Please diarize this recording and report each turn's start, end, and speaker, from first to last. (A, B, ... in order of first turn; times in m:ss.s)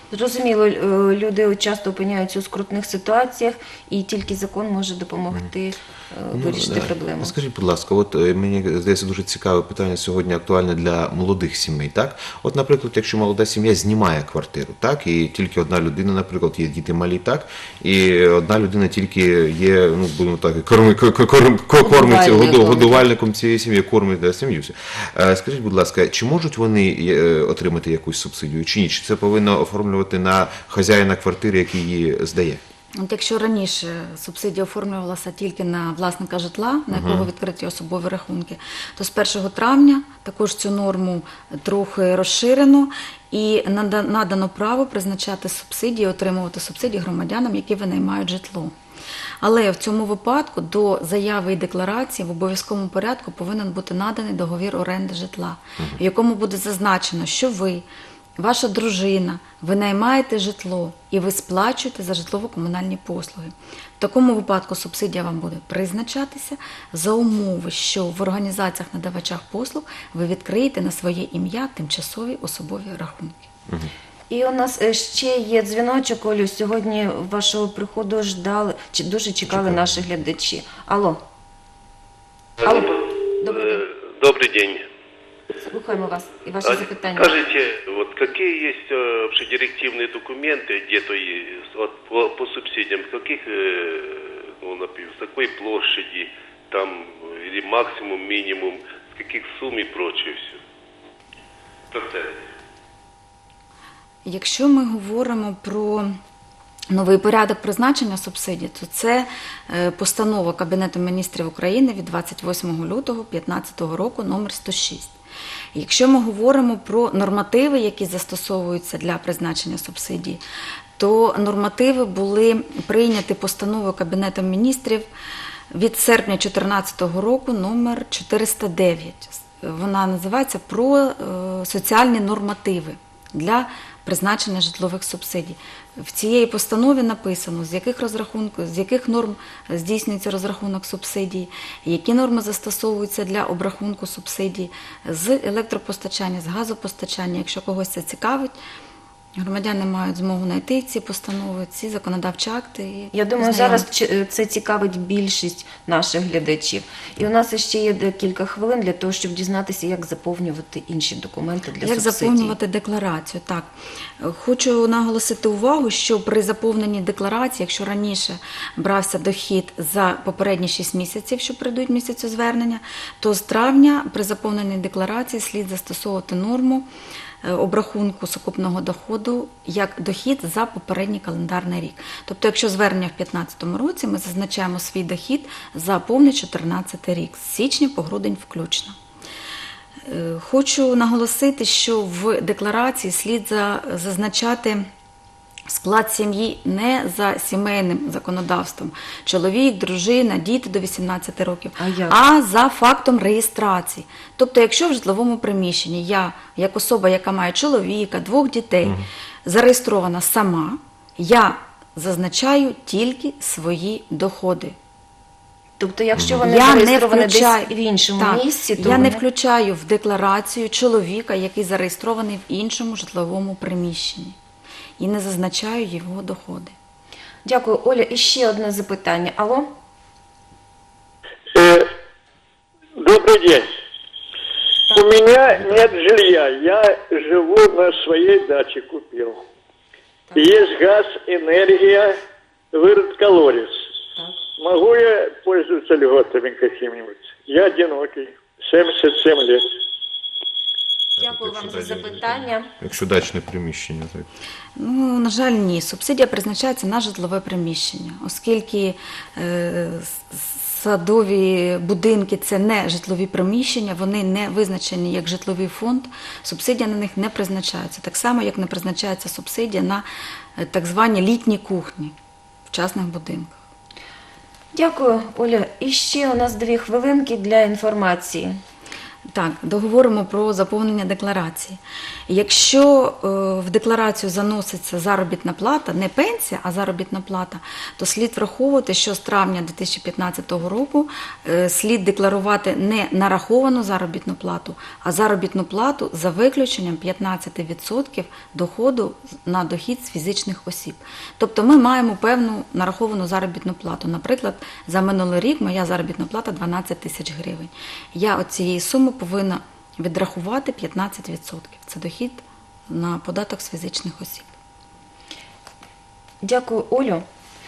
0:00.1-0:07.4 A
0:06.3-0:32.6 B
0:21.8-0:23.0 A
0:33.0-0:48.7 C
0:36.9-0:37.3 B
0:49.4-0:57.8 C
0:58.4-1:13.5 C
1:14.3-1:21.2 A
1:22.6-1:22.9 D
1:22.6-1:23.8 A
1:23.6-1:24.8 D
1:25.5-1:27.4 A
1:26.6-1:40.6 D
1:41.9-1:42.4 D
1:44.2-1:46.1 C
1:46.9-1:55.1 C
1:55.7-2:00.4 C
2:01.0-2:05.1 C
2:05.7-2:28.5 C
2:29.4-2:33.9 C
2:33.1-2:42.6 A
2:41.8-2:56.9 C
2:57.4-3:09.0 C
3:10.1-3:14.8 C
3:15.7-3:34.8 C
3:21.8-3:22.2 A
3:35.8-3:39.2 A
3:36.2-3:36.4 B
3:36.4-3:44.4 C
3:45.0-3:46.7 C
3:47.4-3:49.7 A
3:51.6-3:51.8 E
3:53.0-3:53.7 E
3:54.9-3:56.0 A
3:55.0-3:59.4 E
4:00.3-4:00.8 A
4:00.4-4:02.2 E
4:02.7-4:03.8 E
4:04.2-4:04.4 A
4:04.6-4:09.6 E
4:11.2-4:14.3 B
4:11.2-4:12.7 A
4:14.8-4:30.0 C
4:30.6-4:32.2 C
4:32.7-4:33.6 C
4:34.7-4:38.5 A
4:39.3-5:14.5 C
5:16.4-5:17.2 A